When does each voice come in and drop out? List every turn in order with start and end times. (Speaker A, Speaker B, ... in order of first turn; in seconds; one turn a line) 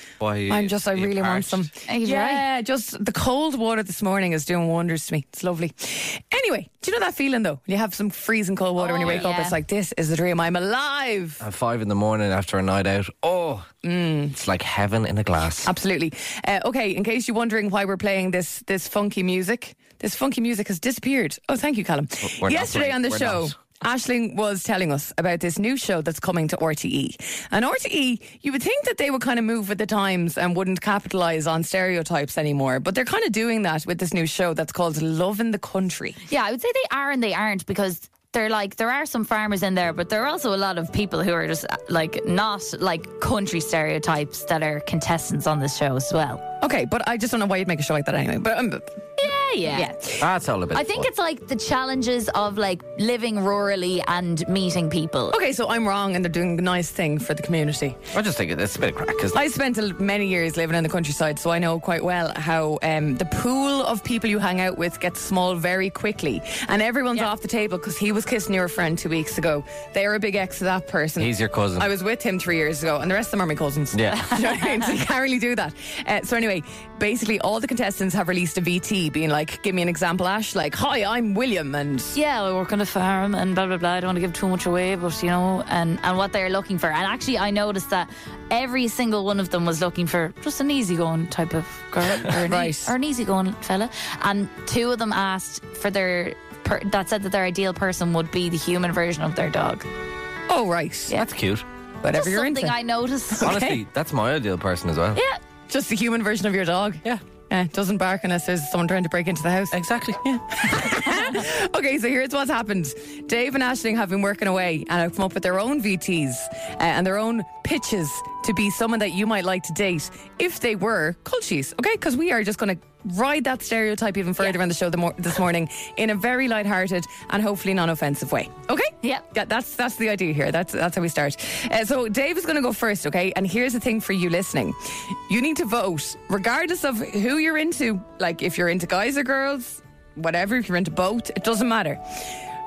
Speaker A: 0.2-1.7
Speaker B: 0.5-11.4
Speaker C: 1.9-2.4
Speaker C: 8.8-9.6
Speaker A: 11.4-13.7
Speaker B: 13.8-14.3
Speaker A: 14.3-15.7
Speaker B: 15.6-36.2
Speaker A: 22.3-23.5
Speaker C: 36.3-46.5
Speaker B: 46.6-48.9
Speaker C: 49.2-50.1
Speaker A: 50.2-51.1
Speaker C: 50.7-55.4
Speaker B: 55.3-58.0
Speaker A: 58.1-59.4
Speaker B: 59.3-82.2
Speaker A: 71.2-71.9
Speaker A: 73.9-74.2
Speaker C: 74.3-74.8
Speaker C: 82.1-99.9
Speaker B: 92.5-92.9
Speaker B: 100.5-101.2
Speaker A: 101.2-101.7
Speaker B: 102.0-102.8
Speaker C: 102.1-103.5
Speaker B: 103.3-103.8
Speaker A: 103.4-105.2
Speaker C: 105.2-105.4
Speaker B: 105.7-142.2
Speaker A: 109.7-110.2